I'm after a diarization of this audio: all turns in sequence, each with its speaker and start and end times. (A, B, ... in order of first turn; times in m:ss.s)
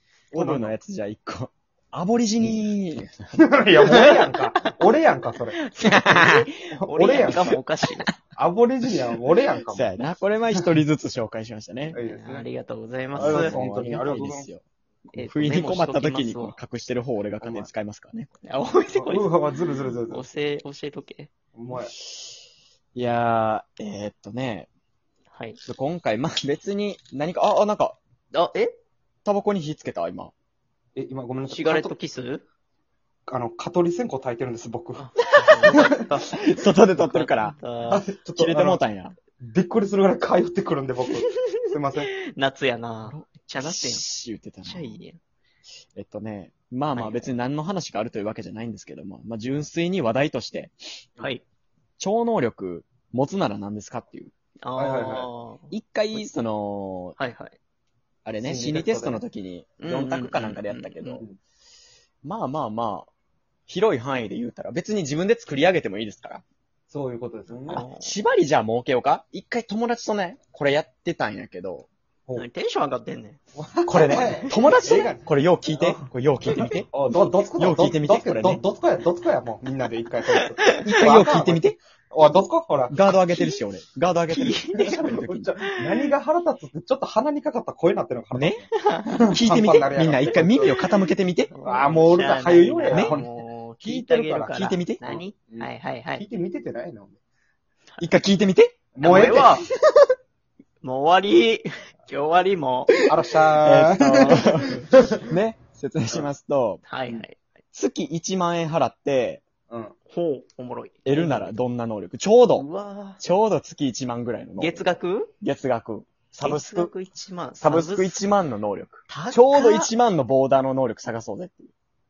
0:00.3-0:00.8 A
0:00.4-0:04.2 B
0:03.4-0:05.6 A
0:04.6-0:05.0 C
0:05.5-0:08.1 C
0:05.8-0:06.4 B
0:06.8-0:07.6 A
0:08.4-0:09.9 A
0:09.7-0:12.0 B
0:11.9-0:12.5 A
0:11.9-0:13.6 C
0:13.1-0:14.6 B
0:13.2-0:14.5 A
0:15.1-0:16.6 C
0:15.2-0:18.3 B
0:17.4-0:17.7 A
0:18.4-0:19.5 C
0:18.9-0:20.2 A
0:20.1-0:21.3 C
0:21.6-0:21.9 A
0:22.1-0:22.4 B
0:23.0-0:24.7 B
0:25.3-0:25.6 C
0:25.6-0:28.0 B
0:28.3-0:28.8 C
0:29.2-0:30.3 B
0:31.0-0:31.9 A
0:31.5-0:32.4 C
0:33.3-0:35.1 A
0:35.0-0:38.0 C
0:35.4-0:37.6 B
0:35.7-0:36.1 A
0:37.9-0:38.8 A
0:38.4-0:39.1 B
0:39.4-0:42.2 A
0:42.3-0:44.0 C
0:43.0-0:45.0 B
0:44.6-0:45.2 C
0:46.0-0:50.7 B
0:46.9-0:47.4 C
0:51.2-0:51.4 C
0:52.0-0:54.3 B
0:54.6-0:56.2 C
0:54.8-0:55.3 A
0:55.7-0:57.2 B
0:57.2-0:57.6 C
0:58.2-1:01.2 B
0:58.4-0:59.2 A
0:59.8-1:01.2 C
1:02.2-1:03.1 B
1:03.7-1:06.4 B
1:06.9-1:07.8 A
1:07.7-1:08.2 C
1:07.7-1:11.9 B
1:12.4-1:13.4 C
1:13.6-1:16.0 A
1:13.9-1:16.9 B
1:14.0-1:15.0 C
1:16.5-1:16.8 C
1:16.9-1:23.0 A
1:17.6-1:18.6 B
1:20.4-1:21.2 C
1:20.8-1:21.8 B
1:22.9-1:25.5 B
1:23.3-1:23.6 C
1:24.3-1:26.1 C
1:24.8-1:30.8 A
1:28.3-1:28.6 B
1:28.7-1:29.3 C
1:29.3-1:31.5 B
1:30.7-1:36.3 C
1:31.6-1:37.2 A
1:32.8-1:33.2 B
1:34.6-1:35.0 B
1:38.0-1:39.5 B
1:39.0-1:39.7 A
1:39.0-1:39.6 C
1:40.8-1:43.0 C
1:43.1-1:45.2 A
1:43.6-1:46.8 B
1:46.9-1:47.4 C
1:47.7-1:49.4 B
1:49.7-1:50.0 A
1:50.1-1:51.6 C
1:51.0-1:52.7 B
1:52.6-1:53.2 C
1:53.2-1:56.9 B
1:54.6-1:55.3 C
1:56.4-1:58.3 C
1:57.6-2:01.7 B
1:59.1-1:59.9 C